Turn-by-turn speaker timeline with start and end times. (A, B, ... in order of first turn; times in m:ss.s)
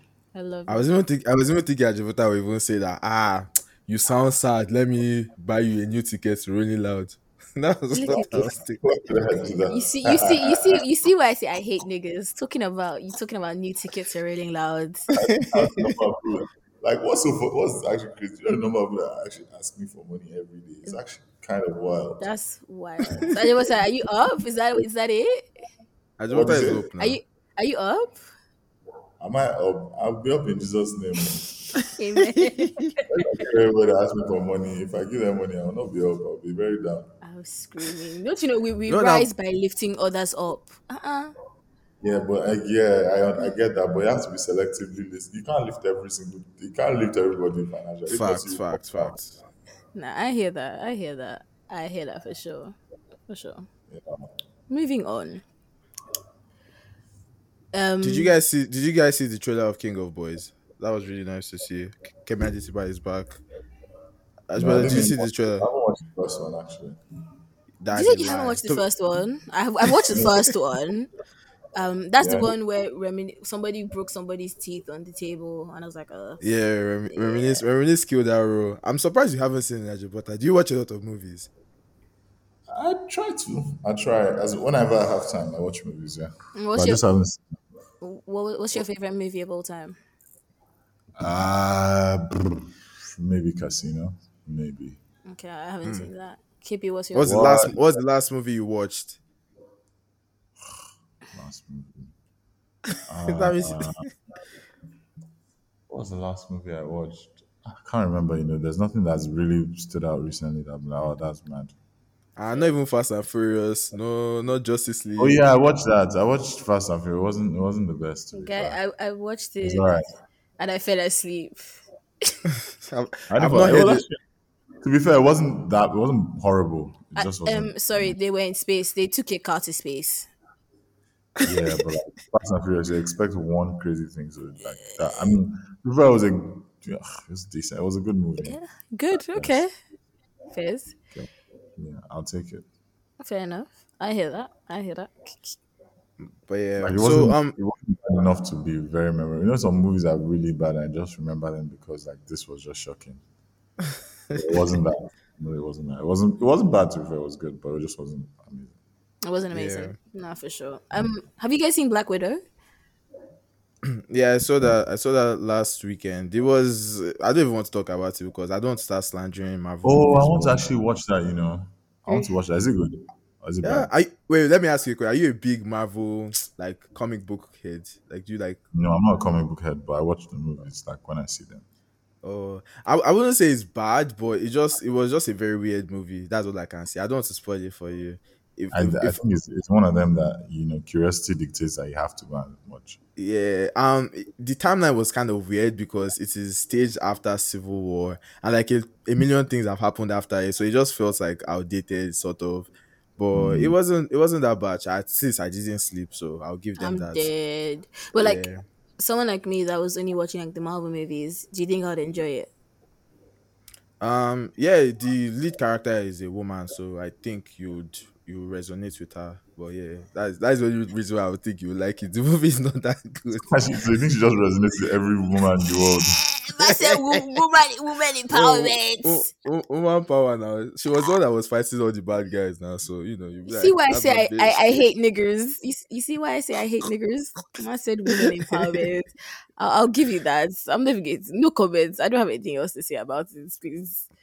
0:00.3-0:00.8 A
0:00.7-0:08.8 B
0:07.9-0:08.6 A
0:08.3-0:10.8 C
0:09.7-0:15.1 A
0:15.2-0:22.3 C
0:15.6-0:15.9 B
0:22.2-0:25.5 A
0:26.2-0:27.2 B
0:26.3-0:26.9 C
0:27.0-0:28.3 A
0:29.2-0:31.5 C
0:32.0-0:33.3 A
0:32.2-0:32.8 B
0:33.1-0:37.1 C
0:37.2-0:41.3 A
0:38.9-0:39.3 B
0:42.0-0:49.2 C
0:48.1-0:49.4 B
0:50.0-0:52.8 A
0:53.3-0:53.7 A
0:53.9-0:54.2 C
0:54.7-0:55.4 A
0:57.7-0:58.3 A
0:58.0-1:03.4 B
1:04.5-1:05.6 B
1:04.6-1:07.0 C
1:07.8-1:08.8 B
1:07.9-1:11.1 A
1:11.8-1:16.4 A
1:12.2-1:12.5 C
1:16.4-1:21.5 B
1:17.1-1:17.6 A
1:22.7-1:27.4 C
1:26.6-1:27.0 A
1:28.0-1:30.0 A
1:31.2-1:35.0 C
1:35.3-1:37.4 A
1:35.8-1:36.1 B
1:37.2-1:39.2 B
1:37.2-1:37.8 C
1:41.3-1:42.1 C
1:43.1-1:44.1 C
1:43.3-1:43.9 B
1:45.9-1:51.7 C
1:52.4-1:55.4 B
1:55.2-1:58.8 C
1:58.3-2:00.1 A
1:59.6-2:00.0 C
2:00.6-2:02.4 A
2:02.8-2:04.0 B
2:03.3-2:04.2 C
2:04.8-2:07.8 C
2:07.2-2:10.3 A
2:11.4-2:18.6 C
2:18.4-2:19.7 A
2:19.3-2:19.6 C
2:20.5-2:21.0 A
2:21.1-2:22.6 C
2:23.2-2:25.6 A
2:26.4-2:27.6 B
2:26.8-2:33.2 C
2:34.4-2:38.7 C
2:39.3-2:42.4 A
2:39.5-2:40.0 B
2:43.9-2:50.6 B
2:49.8-2:53.9 C
2:53.6-2:58.6 B
2:58.7-3:01.6 C
3:02.2-3:09.2 B
3:08.7-3:13.0 C
3:13.2-3:27.3 B
3:23.3-3:23.7 C
3:26.8-3:28.4 A
3:28.2-3:28.6 B
3:29.0-3:32.5 A
3:34.0-3:43.5 B
3:43.5-3:46.1 C
3:46.3-3:49.3 A
3:46.6-3:47.2 B
3:48.3-3:54.8 B
3:53.5-4:04.1 A
3:58.1-3:58.8 B